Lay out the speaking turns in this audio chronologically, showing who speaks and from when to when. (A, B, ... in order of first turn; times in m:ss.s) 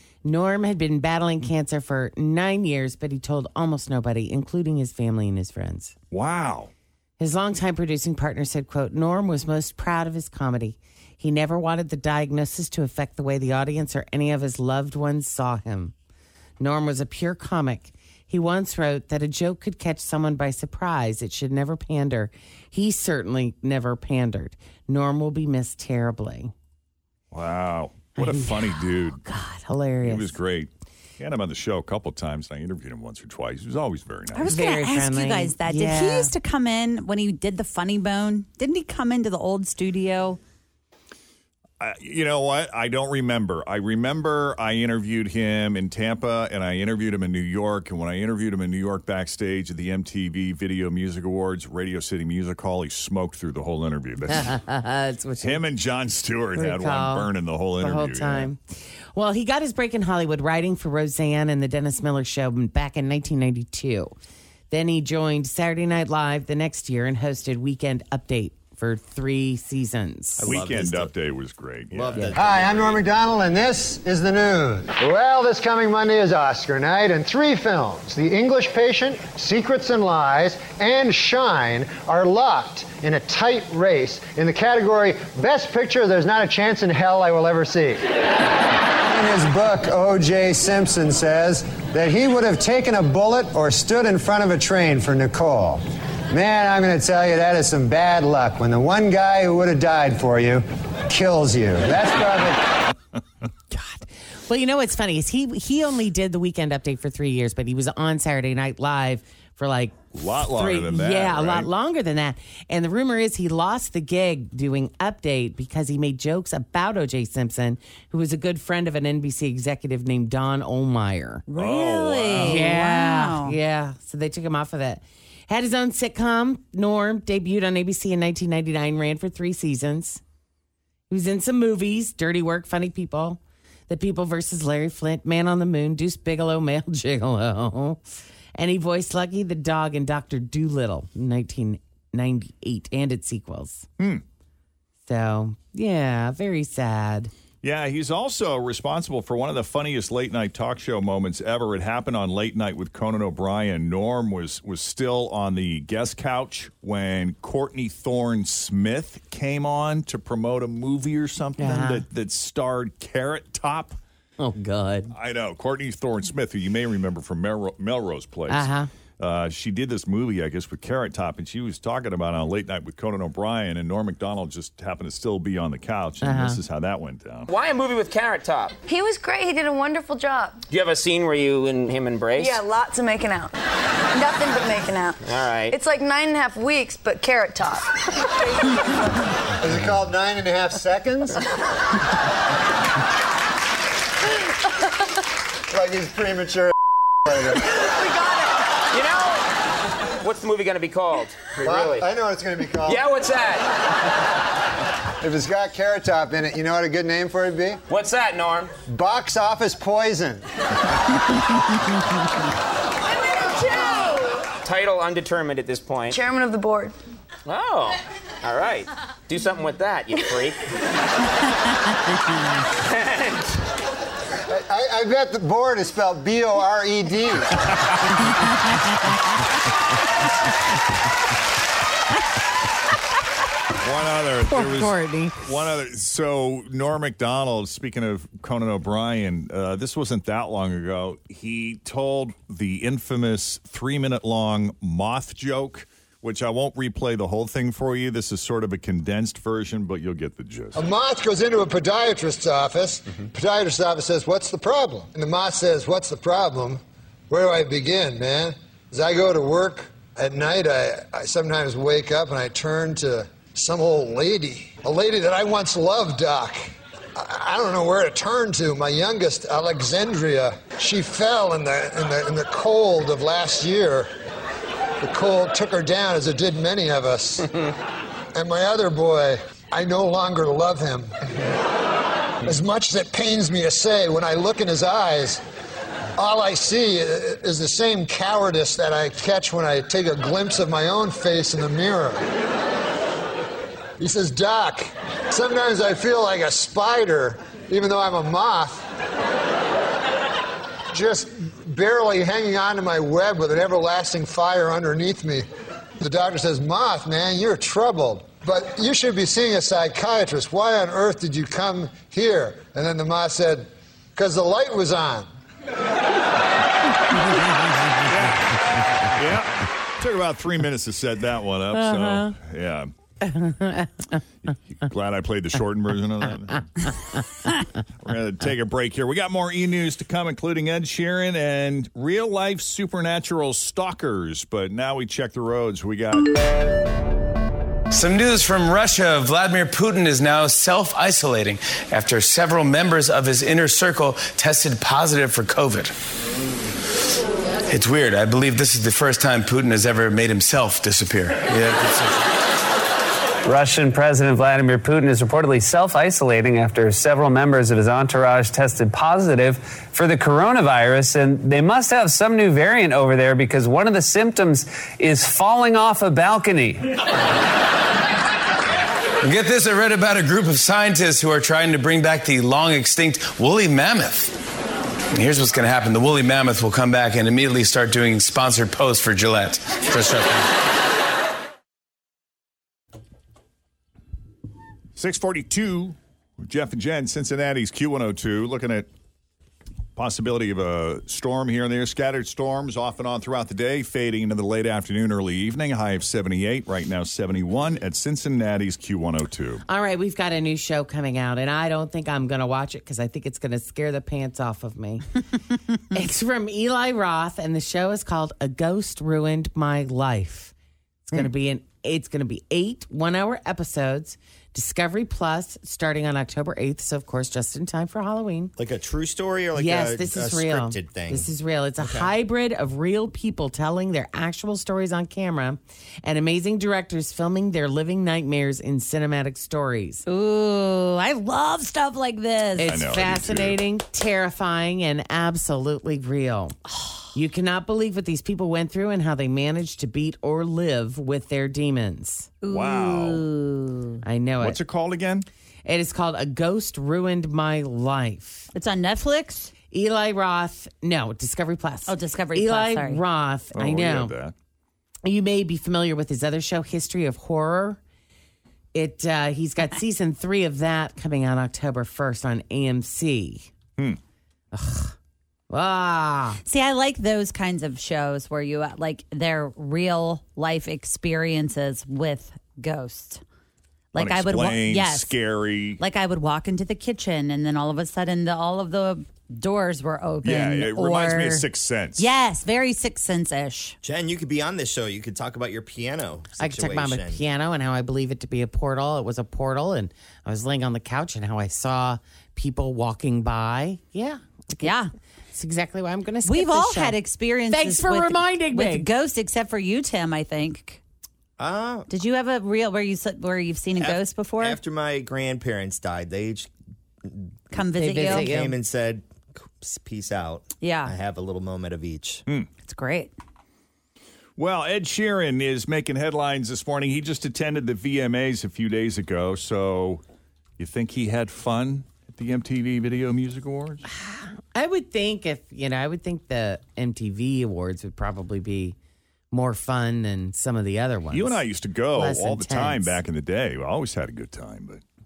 0:00.2-0:05.9 A
0:06.1-0:06.7 B
0:07.2-0:15.9 A
0:16.6-0:26.5 A
0:27.3-0:29.2 B
0:28.2-0:30.4 A
0:30.0-0:34.6 B
0:34.3-0:40.4 C
0:34.4-0:36.3 A
0:41.8-0:54.5 B
0:54.3-0:55.7 A
0:55.4-0:58.5 B
0:56.6-0:58.6 A
0:59.1-1:04.1 A
1:04.7-1:10.5 A
1:10.4-1:11.1 D
1:10.4-1:12.4 B
1:11.9-1:13.1 D
1:12.4-1:28.0 E
1:29.0-1:42.8 E
1:43.7-2:01.4 A
1:50.1-1:51.7 B
2:01.5-2:03.6 C
2:01.6-2:02.6 B
2:02.4-2:10.2 A
2:11.1-2:18.0 A
2:18.6-2:23.9 A
2:25.0-2:27.3 A
2:27.6-2:44.0 B
2:41.6-2:42.0 A
2:44.4-2:45.1 A
2:45.1-2:57.5 B
2:48.5-2:48.9 A
2:56.2-2:56.6 A
2:57.5-2:58.8 F
2:58.9-3:00.6 G
3:00.7-3:02.6 F
3:02.4-3:03.5 G
3:04.1-3:05.2 G
3:05.2-3:05.7 F
3:05.7-3:07.9 G
3:09.6-3:11.4 E
3:15.7-3:17.8 E
3:18.9-3:19.4 F
3:20.2-3:22.0 F
3:21.6-3:23.0 E
3:22.9-3:23.7 F
3:25.2-3:27.8 E
3:27.9-3:28.7 F
3:28.9-3:30.4 E
3:34.6-3:36.2 F
3:36.1-3:36.9 G
3:37.5-3:40.6 F
3:44.5-3:47.6 E
3:53.8-4:10.8 B
3:54.4-3:55.4 A
4:10.8-4:26.6 E
4:27.2-4:34.1 E
4:35.0-4:37.5 E
4:38.4-4:41.1 E
4:42.4-4:45.4 E
4:46.2-4:52.2 E
4:54.0-4:58.8 E
5:00.9-5:05.4 E
5:06.0-5:15.3 E
5:18.1-5:22.9 B
5:21.8-5:22.3 A
5:23.3-5:24.1 A
5:24.5-5:26.6 B
5:28.0-5:36.3 B
5:37.9-5:45.9 H
5:47.7-5:52.1 H
5:53.4-6:06.9 I
6:09.2-6:14.3 H
6:15.2-6:20.4 H
6:25.0-6:28.9 B
6:30.0-6:39.6 B
6:39.7-6:45.0 A
6:45.9-6:50.5 A
6:51.1-6:58.5 A
6:58.6-7:01.3 D
6:59.5-7:10.0 A
7:01.8-7:02.1 D
7:10.1-7:12.8 C
7:12.6-7:16.6 A
7:12.6-7:13.6 B
7:17.1-7:22.3 A
7:22.4-7:24.0 C
7:22.5-7:23.3 B
7:24.0-7:24.6 A
7:24.4-7:25.3 B
7:25.6-7:28.5 A
7:28.5-7:29.5 C
7:29.7-7:34.2 A
7:31.9-7:33.0 C
7:33.6-7:34.3 B
7:35.0-7:37.8 A
7:38.7-7:43.5 A
7:44.5-7:45.0 A
7:45.5-7:46.4 A
7:46.4-7:53.2 C
7:53.9-7:55.2 C
7:54.0-7:55.8 B
7:55.8-8:03.8 C
8:00.2-8:02.1 B
8:03.8-8:07.2 D
8:06.4-8:14.8 A
8:14.6-8:14.9 C
8:15.3-8:17.0 A
8:16.2-8:20.8 C
8:17.5-8:18.9 A
8:21.4-8:21.9 D
8:21.9-8:24.6 C
8:23.8-8:26.5 D
8:27.5-8:28.3 C
8:27.7-8:28.6 A
8:28.0-8:32.2 D
8:30.6-8:30.9 C
8:32.6-8:33.1 C
8:34.4-8:40.0 B
8:40.6-8:43.8 B
8:43.9-8:48.8 A
8:49.3-8:53.0 A
8:51.1-8:54.8 B